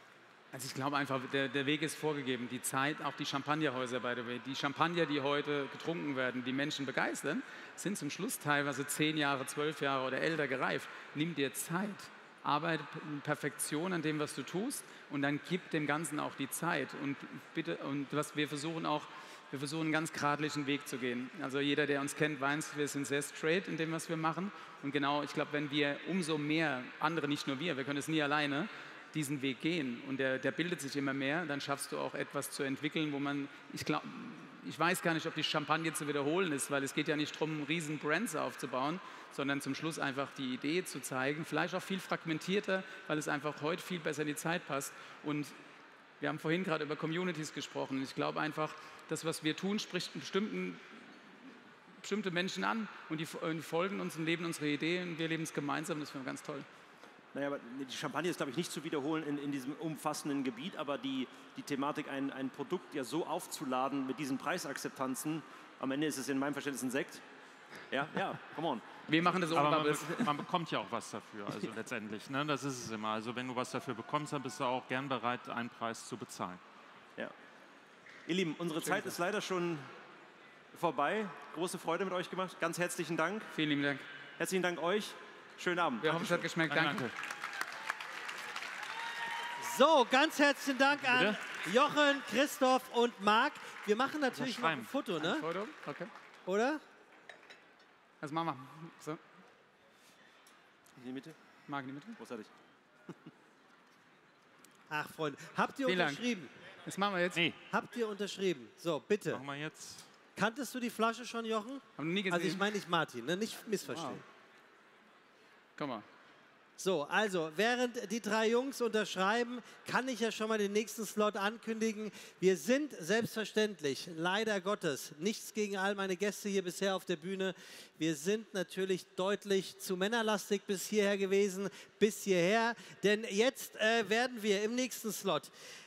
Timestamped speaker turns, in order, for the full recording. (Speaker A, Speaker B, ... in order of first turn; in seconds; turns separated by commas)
Speaker A: 0.5-45.5, Speaker A: 46.2-51.0, Speaker A: 52.0-56.7, Speaker B: 57.3-67.2, Speaker B: 67.9-69.6, Speaker A: 69.1-70.3, Speaker C: 69.5-76.6, Speaker B: 78.3-79.9, Speaker A: 78.8-79.1, Speaker B: 80.7-83.5, Speaker A: 83.5-84.1, Speaker B: 84.4-86.5, Speaker A: 86.0-87.1, Speaker C: 86.7-87.1, Speaker D: 89.6-95.5, Speaker C: 91.0-91.4, Speaker C: 94.3-94.9, Speaker A: 95.2-96.1, Speaker D: 96.5-96.8, Speaker A: 98.2-99.2, Speaker B: 100.9-101.4, Speaker A: 101.7-102.2, Speaker B: 102.2-102.5, Speaker D: 104.9-106.5, Speaker A: 105.8-106.2, Speaker A: 106.8-107.4, Speaker D: 107.7-109.4, Speaker C: 109.3-110.1, Speaker D: 110.3-114.2, Speaker A: 112.0-112.7, Speaker A: 113.9-114.2, Speaker A: 115.8-116.0, Speaker D: 116.8-135.5